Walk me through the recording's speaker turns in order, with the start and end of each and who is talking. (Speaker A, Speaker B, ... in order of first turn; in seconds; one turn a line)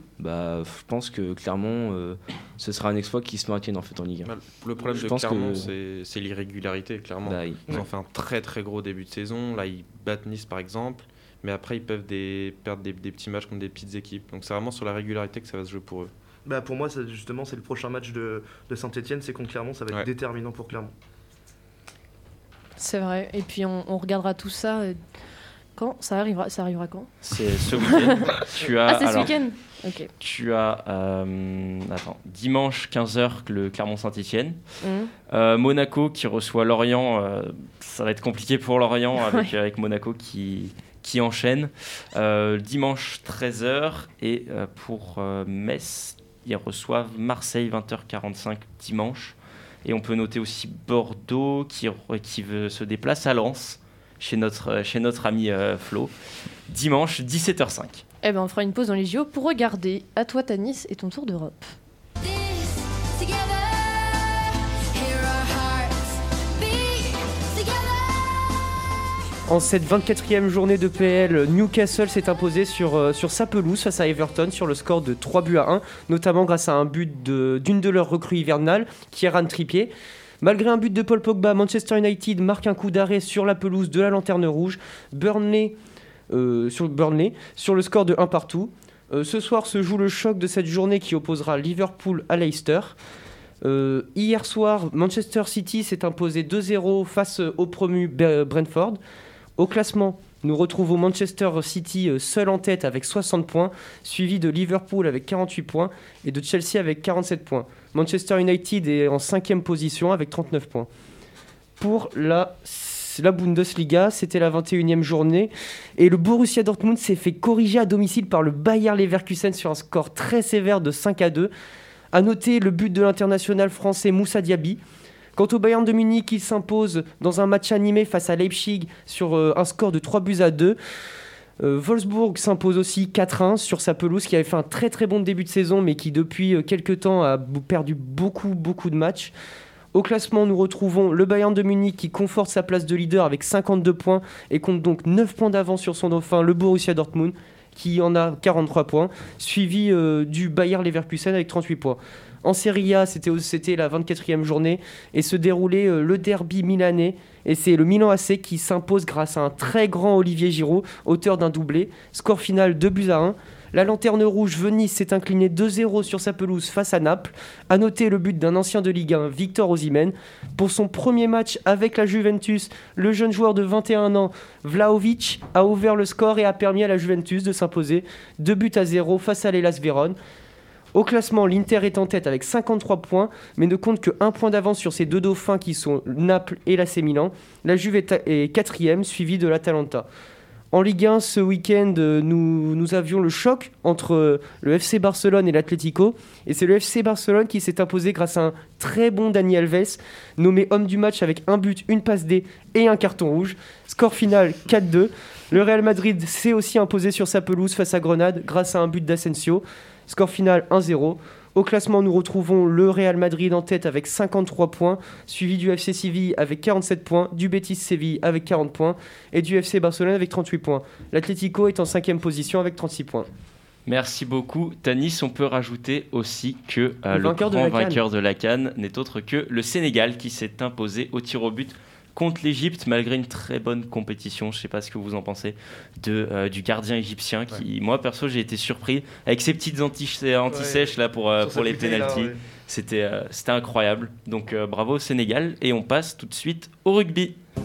Speaker A: 0.2-5.7
Speaker B: 4.2-16.1
Speaker A: 7.2-7.6
Speaker C: 16.5-20.9
Speaker D: 22.8-25.0
Speaker D: 25.8-27.1
Speaker E: 27.2-29.3
Speaker D: 27.7-28.4
Speaker D: 28.9-30.1
Speaker E: 30.2-34.6
Speaker D: 34.8-35.1
Speaker E: 35.3-56.1
Speaker D: 39.2-39.5
Speaker E: 56.7-58.0
Speaker D: 58.2-61.8
Speaker F: 63.2-63.6
Speaker F: 65.0-65.9
Speaker F: 66.6-67.9
Speaker G: 69.5-79.9
Speaker G: 80.4-85.8
Speaker G: 86.3-93.0
Speaker G: 93.6-99.0
Speaker G: 99.6-110.9
Speaker G: 111.8-121.5
Speaker G: 122.1-124.8
Speaker G: 125.4-130.8
Speaker G: 131.6-139.3
Speaker G: 139.9-180.2
Speaker G: 180.9-190.1
Speaker G: 190.7-223.3
Speaker E: 223.9-247.4
Speaker G: 227.1-228.0
Speaker C: 240.5-242.4